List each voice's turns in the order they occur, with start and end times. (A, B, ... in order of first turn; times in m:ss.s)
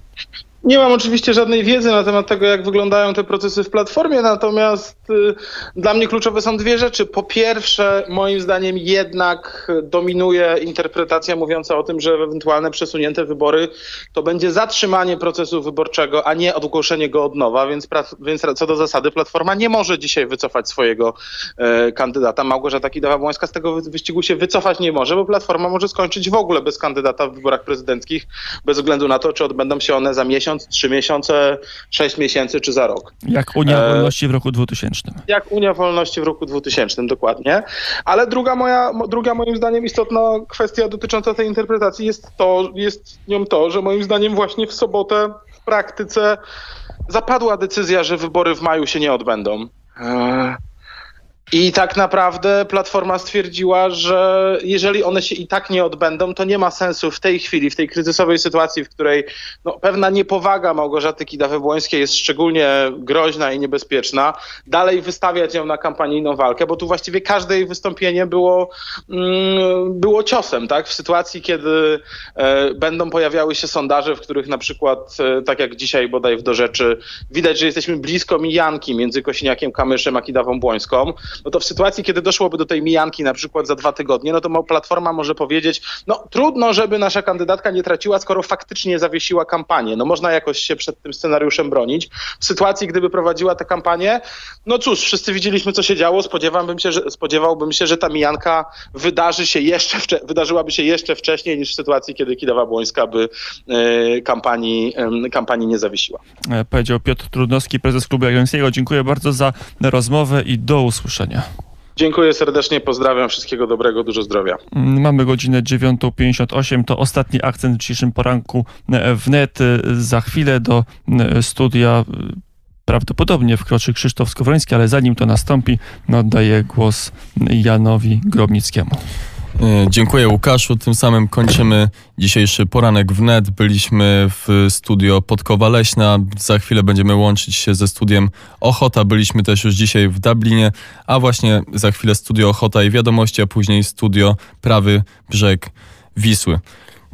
0:00.6-0:33.1 A
0:33.2-0:35.2 B
0:33.7-0:34.1 A
0:35.3-0:46.4 A
0:47.1-0:50.6 A
0:51.5-1:46.2 A
1:46.5-1:51.5 B
1:52.0-1:54.6 A
1:54.7-2:09.0 B
2:09.6-2:26.6 C